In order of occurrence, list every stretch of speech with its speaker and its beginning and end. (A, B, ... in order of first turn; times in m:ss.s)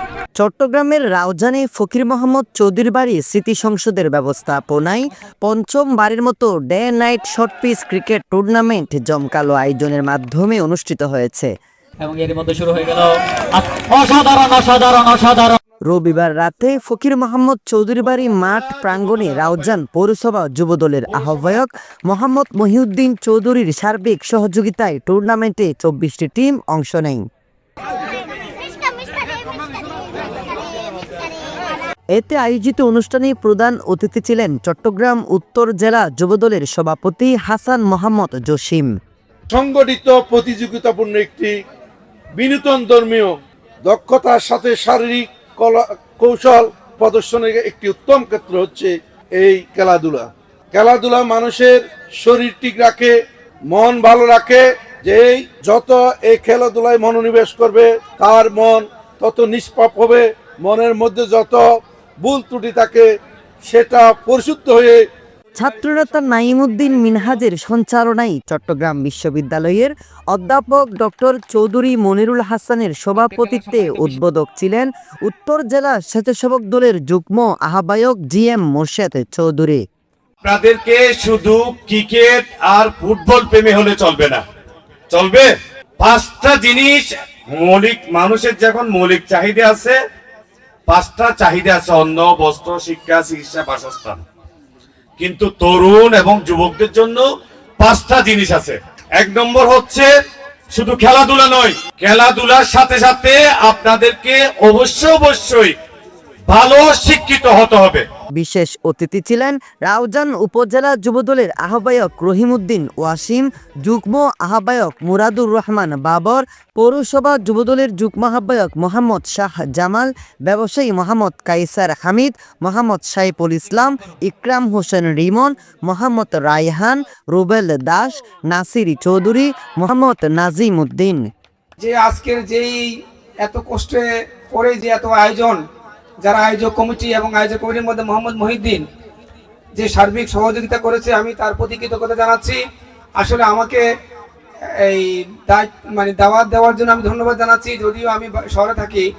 0:00.4-0:11.5 A
0:12.0-0:15.6 B
0:15.8-0:27.2 A
0:32.1-0:38.9 A
0:39.5-0:41.5 C
0:42.3-0:43.3 C
0:43.8-0:53.1 C
0:53.7-1:01.6 C
1:02.2-1:03.1 C
1:03.6-1:05.0 C
1:05.6-1:19.8 A
1:20.4-1:24.4 D
1:25.1-1:30.0 D
1:30.9-1:34.2 D
1:35.2-1:37.2 D
1:37.8-1:40.1 D
1:40.7-1:45.7 D
1:46.5-1:48.0 D
1:48.4-2:11.2 A
2:11.8-2:12.9 E
2:13.4-2:15.6 E
2:16.2-2:18.8 E
2:19.8-2:22.6 E
2:23.2-2:23.8 E
2:24.8-2:29.0 E